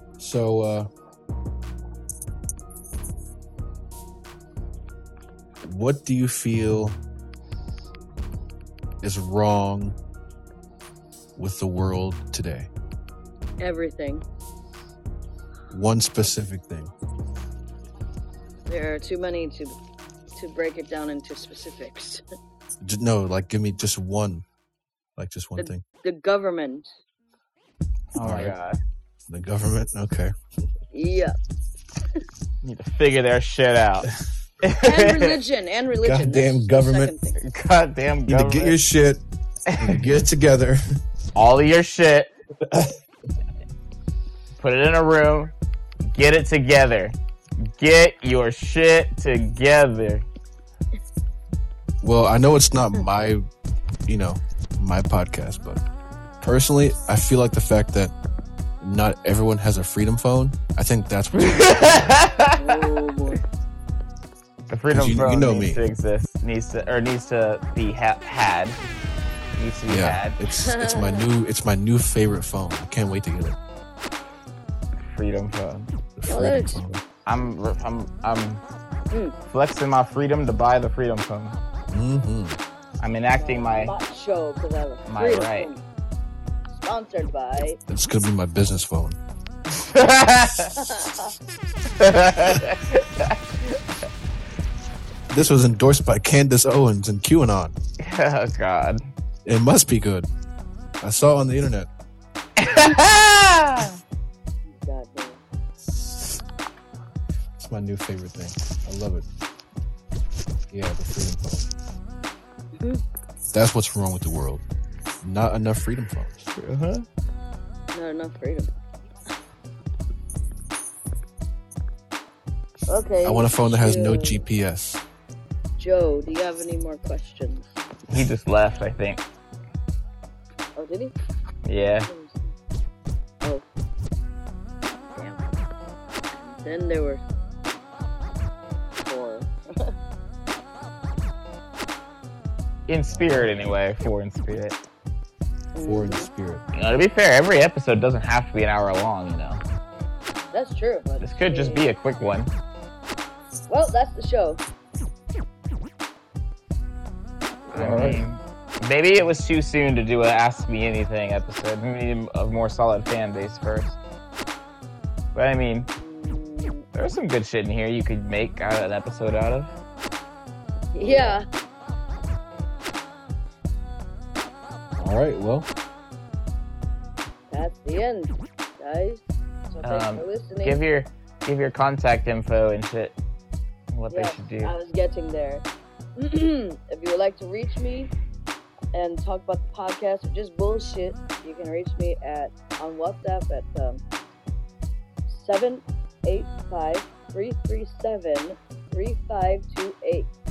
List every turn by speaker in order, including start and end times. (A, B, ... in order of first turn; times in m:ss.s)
0:00.2-0:00.9 A
0:05.6-0:07.0 A
0:09.0-0:10.0 A
0:11.4-0:12.7 A
0:13.6-0:14.2 B
0:15.7-0:16.9 A
0:18.7-0:19.7 B
0:20.3-0:22.2 B
0:22.8-0:24.4 A
0:25.2-0:25.8 A
0:25.6-0:26.9 B
0:28.1-0:28.8 C
0:28.2-0:28.6 A
0:29.3-0:30.3 A
0:30.9-0:31.3 B
0:32.6-0:34.1 C
0:34.6-0:35.4 C
0:34.8-0:37.4 B
0:36.0-0:37.1 A
0:37.4-0:38.8 C
0:38.3-0:39.2 A
0:39.7-0:40.0 C
0:39.8-0:40.8 A
0:41.3-0:42.3 C
0:42.6-0:43.0 A
0:44.6-0:45.5 C
0:46.1-0:47.2 C
0:47.7-0:50.2 C
0:52.0-0:53.4 A
0:54.1-0:55.8 A
0:56.4-0:58.1 A
0:58.8-1:02.2 A
1:01.3-1:02.8 C
1:02.6-1:03.4 B
1:04.7-1:08.8 C
1:04.9-1:05.8 A
1:09.6-1:10.4 C
1:09.9-1:13.6 A
1:10.6-1:11.2 B
1:15.0-1:15.9 C
1:16.2-1:17.0 A
1:16.2-1:16.8 B
1:17.2-1:18.6 C
1:19.5-1:21.6 C
1:21.9-1:22.6 A
1:23.0-1:23.9 C
1:23.4-1:25.8 B
1:25.0-1:25.7 C
1:26.7-1:27.8 B
1:27.9-1:29.2 A
1:29.7-1:30.7 C
1:30.8-1:31.3 B
1:32.0-1:33.8 C
1:35.3-1:37.7 A
1:38.0-1:39.0 C
1:39.4-1:40.3 A
1:41.0-1:41.9 A
1:42.6-1:44.0 C
1:44.7-1:45.4 B
1:47.6-1:49.2 A
1:50.7-1:51.7 A
1:52.8-1:53.0 B
1:53.5-1:54.6 A
1:55.2-1:56.4 A
1:56.5-1:57.0 C
1:57.9-1:58.7 B
2:02.9-2:04.4 B
2:03.2-2:05.0 A
2:05.8-2:07.8 B
2:08.1-2:09.2 C
2:10.8-2:11.1 B
2:11.6-2:12.1 C
2:11.8-2:12.5 B
2:15.0-2:15.5 B
2:16.3-2:17.2 B
2:19.0-2:19.9 B
2:22.9-2:24.8 C
2:23.1-2:23.6 A
2:25.7-2:26.3 B
2:25.8-2:26.6 A
2:26.7-2:29.6 C
2:30.5-2:31.9 B
2:31.2-2:32.5 C
2:33.7-2:34.6 B
2:37.7-2:38.3 A
2:37.7-2:44.0 C
2:45.3-2:45.9 C
2:46.0-2:46.8 B
2:46.9-2:49.7 C
2:50.9-2:51.4 B
2:55.0-2:55.7 A
2:57.5-3:00.8 B
2:59.8-3:03.2 C
3:03.9-3:04.7 C
3:04.1-3:05.6 B
3:06.2-3:08.1 B
3:08.9-3:14.0 B
3:15.3-3:20.3 B